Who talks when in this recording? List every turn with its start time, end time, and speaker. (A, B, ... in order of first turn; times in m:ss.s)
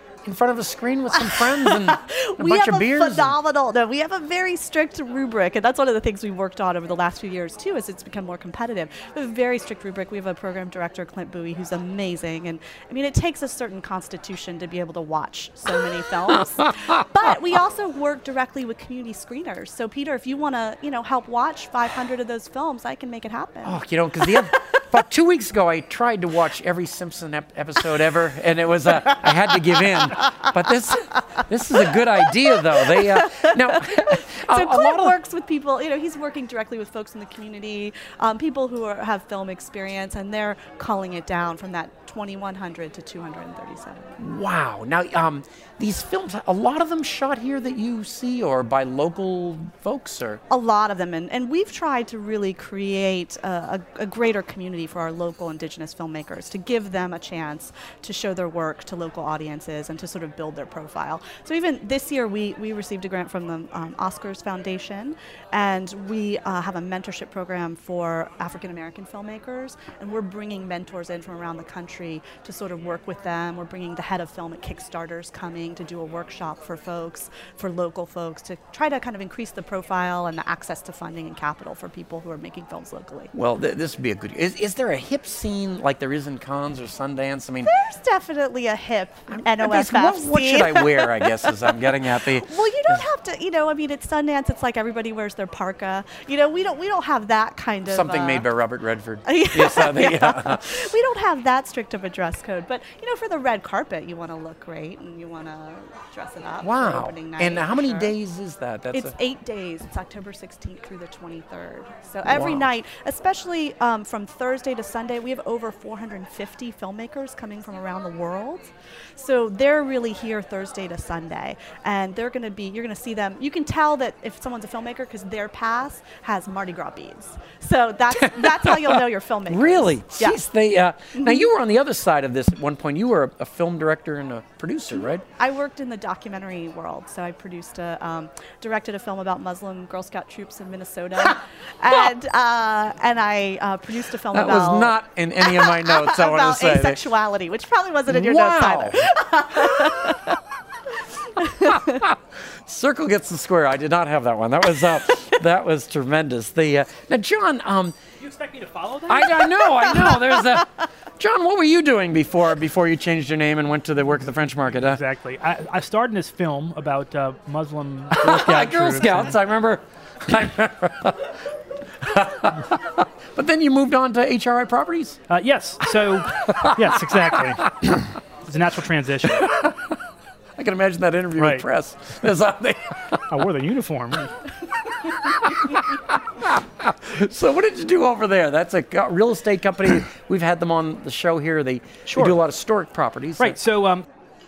0:00.2-0:03.4 A
0:01.2-0:24.8 B
0:23.6-0:35.2 A
0:32.5-0:44.2 B
0:44.2-0:50.4 A
0:50.5-1:23.3 B
1:23.3-1:27.7 A
1:27.6-1:31.7 B
1:29.3-1:33.0 A
1:32.2-1:38.4 B
1:37.9-1:40.9 A
1:39.2-1:48.1 B
1:46.6-1:49.1 A
1:48.9-2:10.4 B
1:52.2-1:52.7 A
2:08.2-2:15.2 A
2:11.2-2:11.4 B
2:15.0-2:30.4 B
2:24.3-2:27.1 A
2:28.1-2:30.3 A
2:31.4-2:32.0 B
2:31.6-2:37.9 A
2:38.2-2:39.3 C
2:39.1-2:45.0 A
2:39.9-2:40.2 B
2:44.7-2:49.3 C
2:48.1-2:51.4 A
2:52.0-2:55.2 A
2:55.3-2:57.7 C
2:56.3-2:58.0 A
2:58.4-2:59.5 C
2:59.2-3:00.0 A
3:00.6-3:03.2 A
3:01.4-3:01.7 C
3:03.3-3:04.4 C
3:04.9-3:13.6 A
3:12.0-3:12.4 C
3:13.4-3:14.0 C